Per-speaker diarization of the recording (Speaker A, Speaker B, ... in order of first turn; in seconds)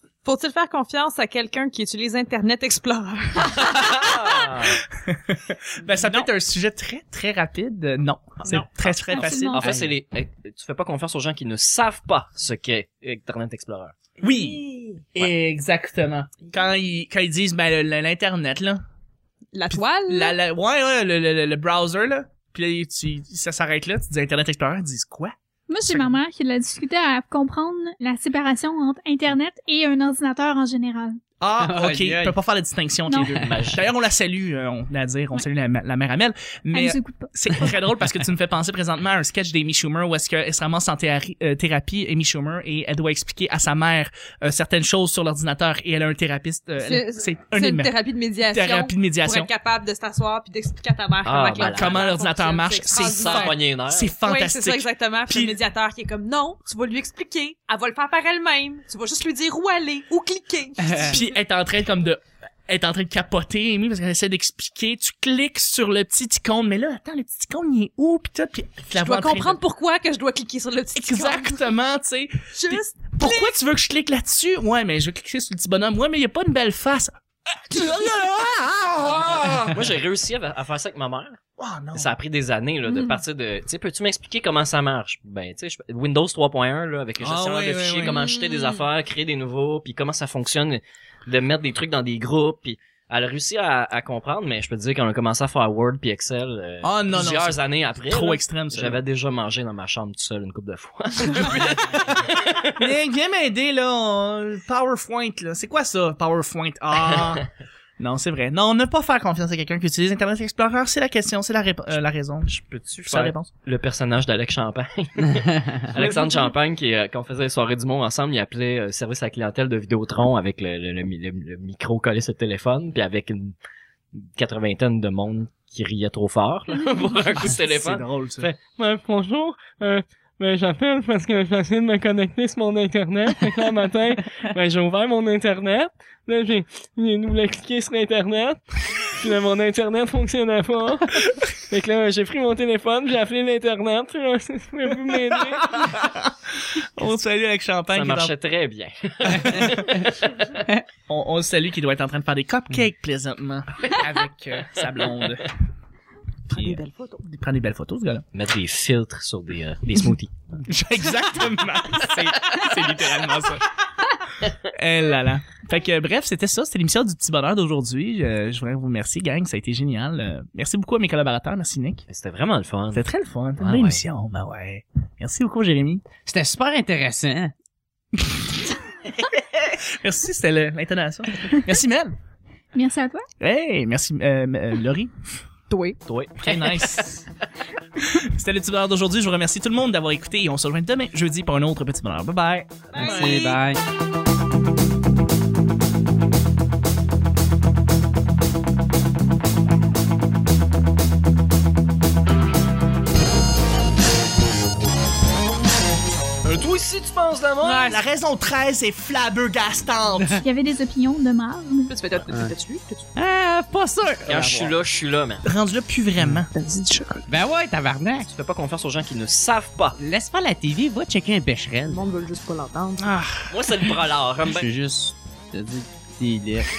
Speaker A: 0.2-4.6, 5.9-6.3, 14.2-15.1, 19.5-20.4, 46.8-53.6, 54.2-61.2, 69.0-71.7, 72.5-73.5, 88.1-88.7, 156.5-157.2, 185.7-187.1, 192.9-193.6, 207.6-208.0, 211.9-213.1, 221.9-223.1
Speaker B: 3.7-4.8, 9.1-13.9, 33.4-33.8, 51.2-52.1, 53.1-54.1, 79.3-81.4, 82.0-102.9, 112.5-123.5, 124.2-128.6, 147.9-150.6, 158.3-160.3, 172.1-173.1, 173.6-174.0, 186.1-186.4, 206.4-208.0, 214.3-215.4, 218.3-220.0, 223.5-224.7
Speaker C: 5.0-9.7, 14.2-14.6, 15.1-18.8, 19.7-25.3, 31.4-47.9, 48.5-49.5, 51.7-55.6, 61.0-69.6, 71.0-79.8, 81.6-82.1, 87.2-88.3, 96.8-99.0, 101.3-102.2, 102.8-107.5, 108.0-112.5, 113.1-113.5, 115.9-116.5, 127.4-128.5, 145.5-148.3, 149.4-149.7, 151.1-155.5, 156.5-158.2, 160.7-163.7, 164.7-172.1, 172.9-176.0, 179.2-182.1, 183.4-185.1, 186.4-187.2, 188.1-193.3, 207.8-210.4, 215.4-217.0, 223.0-223.5
Speaker D: 9.1-9.8, 25.7-31.2, 33.1-33.4, 36.7-37.7, 182.7-183.2, 210.4-211.9
Speaker E: 31.6-32.4, 33.2-33.8, 176.3-177.5, 193.0-193.8, 212.3-212.6, 213.2-214.7, 217.3-218.3, 220.0-222.1, 224.4-226.7
Speaker F: 128.7-145.8